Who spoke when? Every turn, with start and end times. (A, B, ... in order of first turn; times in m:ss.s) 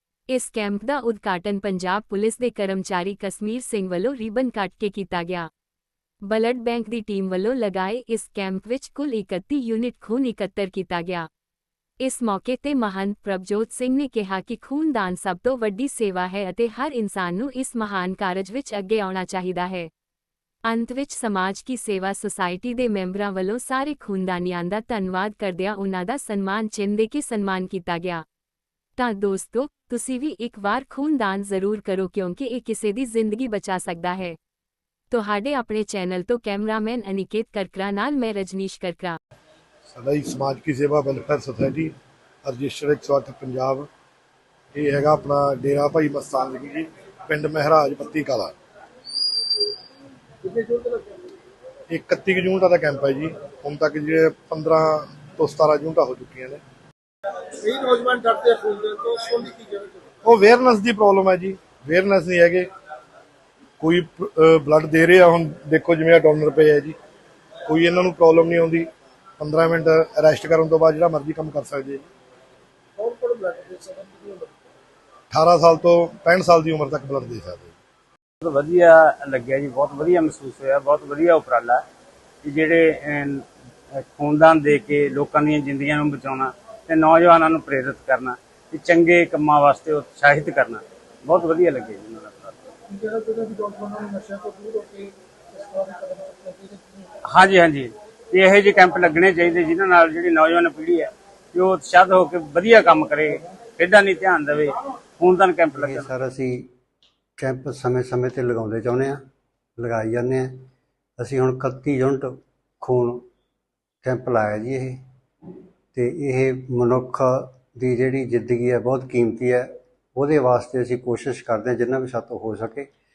0:00.3-0:05.5 A
0:06.2-0:11.3 A
0:12.0-0:19.9 A
0:20.6-0:28.2 A
0:29.0-0:34.4 A
0:35.1-0:39.2 A
0:39.9-0:41.9 B
0:42.4-0:43.9 B
0:44.7-0:48.5 B
0:50.4-0:51.0 C
0:51.9-0:56.6 B
0:57.6-0:59.9 C
1:00.2-1:02.7 B
1:03.8-1:06.9 B
1:07.6-1:08.9 B
1:09.4-1:12.0 B
1:13.0-1:14.5 C
1:15.3-1:17.7 B
1:18.4-1:21.8 D
1:22.4-1:32.5 D
1:32.9-1:36.8 C
1:37.3-1:46.1 D
1:45.8-1:46.7 E
1:47.4-1:49.2 E
1:49.8-1:50.6 E
1:51.2-1:53.2 E
1:54.0-1:55.0 E
1:55.9-2:02.9 E